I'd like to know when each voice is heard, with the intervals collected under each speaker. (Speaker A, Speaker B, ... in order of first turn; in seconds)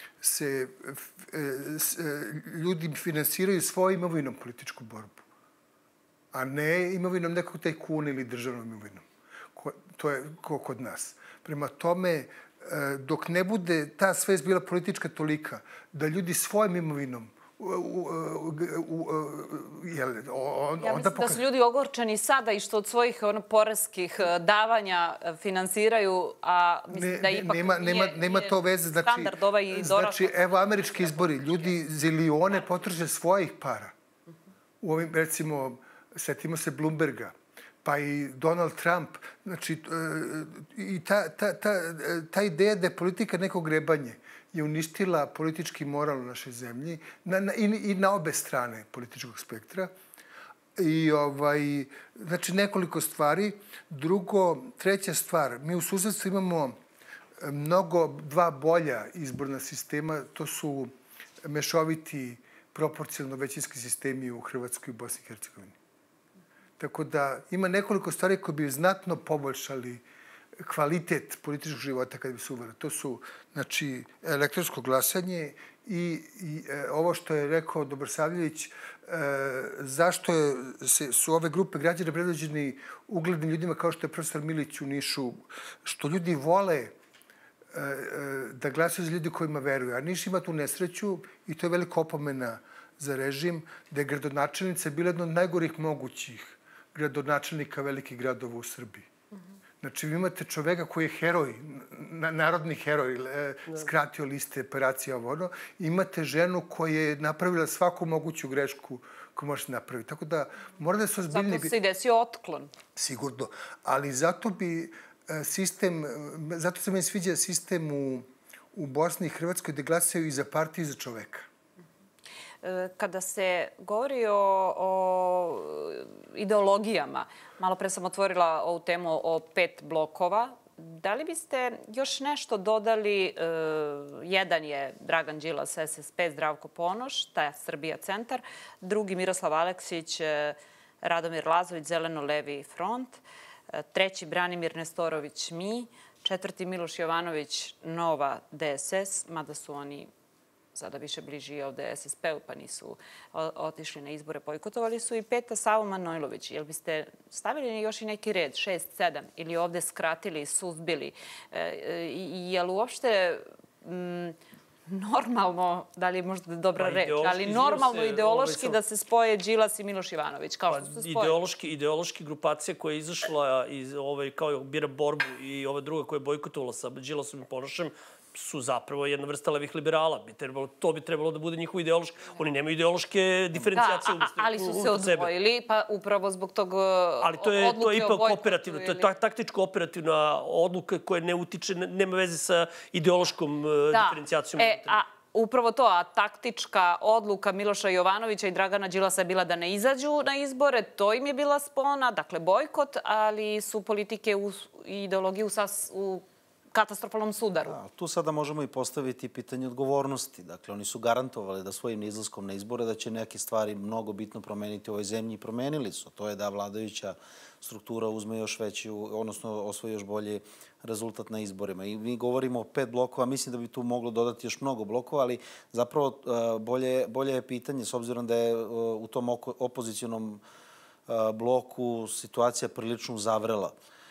Speaker A: 0.2-5.2, 6.3-21.4, 26.9-33.9, 34.8-49.9, 50.8-56.8, 57.4-60.9, 61.4-65.8, 66.8-70.0, 70.6-86.9, 87.7-99.1, 99.8-111.7, 112.9-121.5
Speaker B: 20.8-31.7, 111.3-112.7, 122.6-143.2, 143.7-150.1, 150.7-164.3, 164.9-171.3, 183.7-189.1, 193.9-207.8
Speaker C: 166.8-168.8, 170.7-185.3, 187.2-195.0
Speaker D: 207.6-230.4, 231.1-233.7